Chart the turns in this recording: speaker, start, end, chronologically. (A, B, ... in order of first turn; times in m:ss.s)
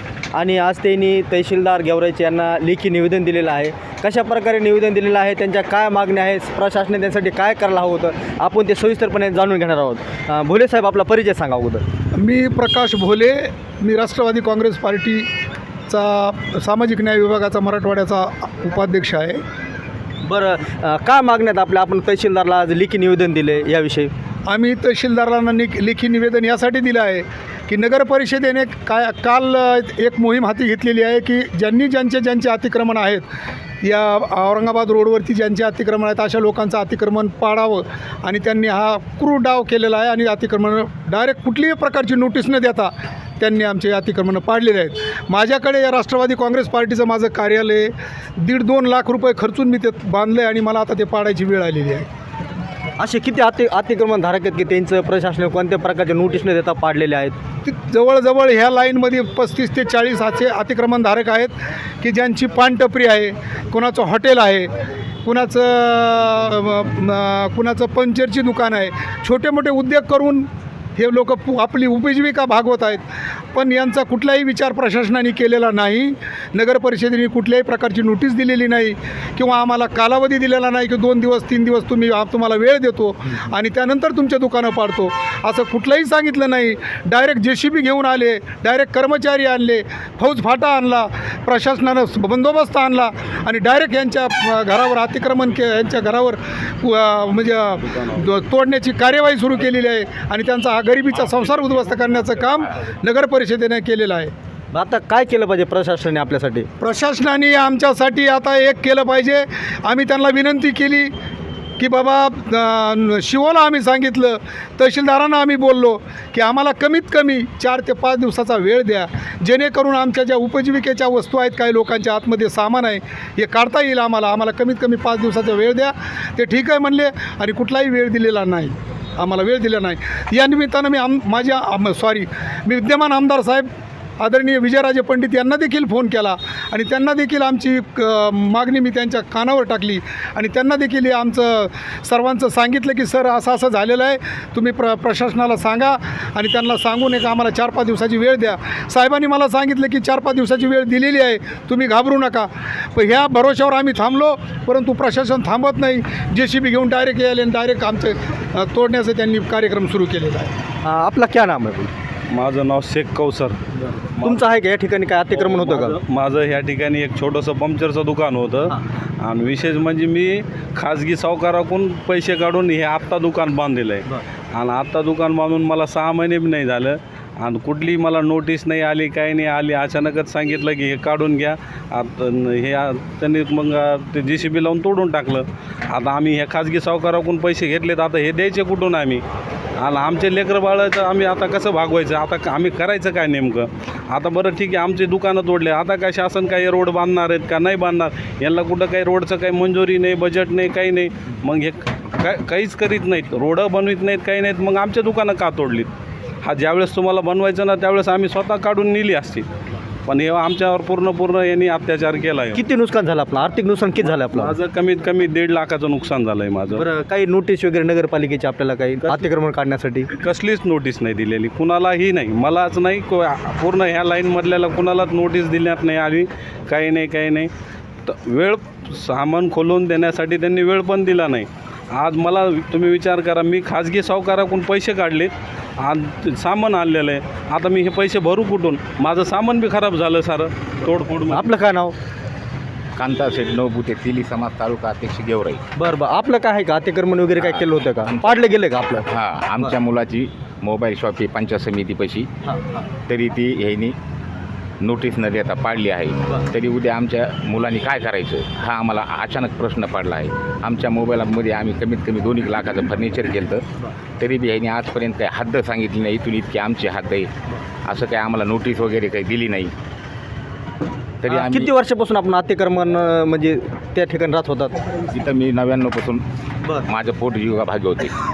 0:00.3-0:11.9 A
0:12.2-0:15.3 B
0:15.9-0:19.4 B
0:20.2-0:24.1 A
0:24.5-0:33.3 B
0:33.8-0:52.1 B
0:53.0-0:57.4 A
0:57.6-1:04.7 B
1:05.2-1:44.3 B
1:44.7-1:46.7 A
1:46.8-1:51.1 B
1:51.8-2:13.7 B
2:14.2-2:40.6 B
2:40.8-2:41.9 A
2:42.3-2:43.6 C
2:43.8-2:46.0 A
2:45.3-3:09.2 C
3:09.8-3:25.9 C
3:26.4-3:29.5 C
3:30.1-3:32.6 C
3:32.5-3:34.6 A
3:34.4-3:36.9 C
3:36.7-3:40.1 A
3:40.2-3:47.5 C
3:48.0-4:01.6 C
4:01.3-4:02.0 A
4:03.0-4:05.6 D
4:05.8-4:09.1 A
4:07.4-4:08.3 D
4:09.1-4:12.3 D
4:12.4-4:12.9 A
4:13.1-4:14.0 D
4:14.8-4:23.6 D
4:24.2-4:27.3 D
4:27.8-4:29.7 D
4:31.2-4:31.7 D
4:31.3-4:34.9 A
4:35.1-4:36.2 D
4:36.9-4:38.1 D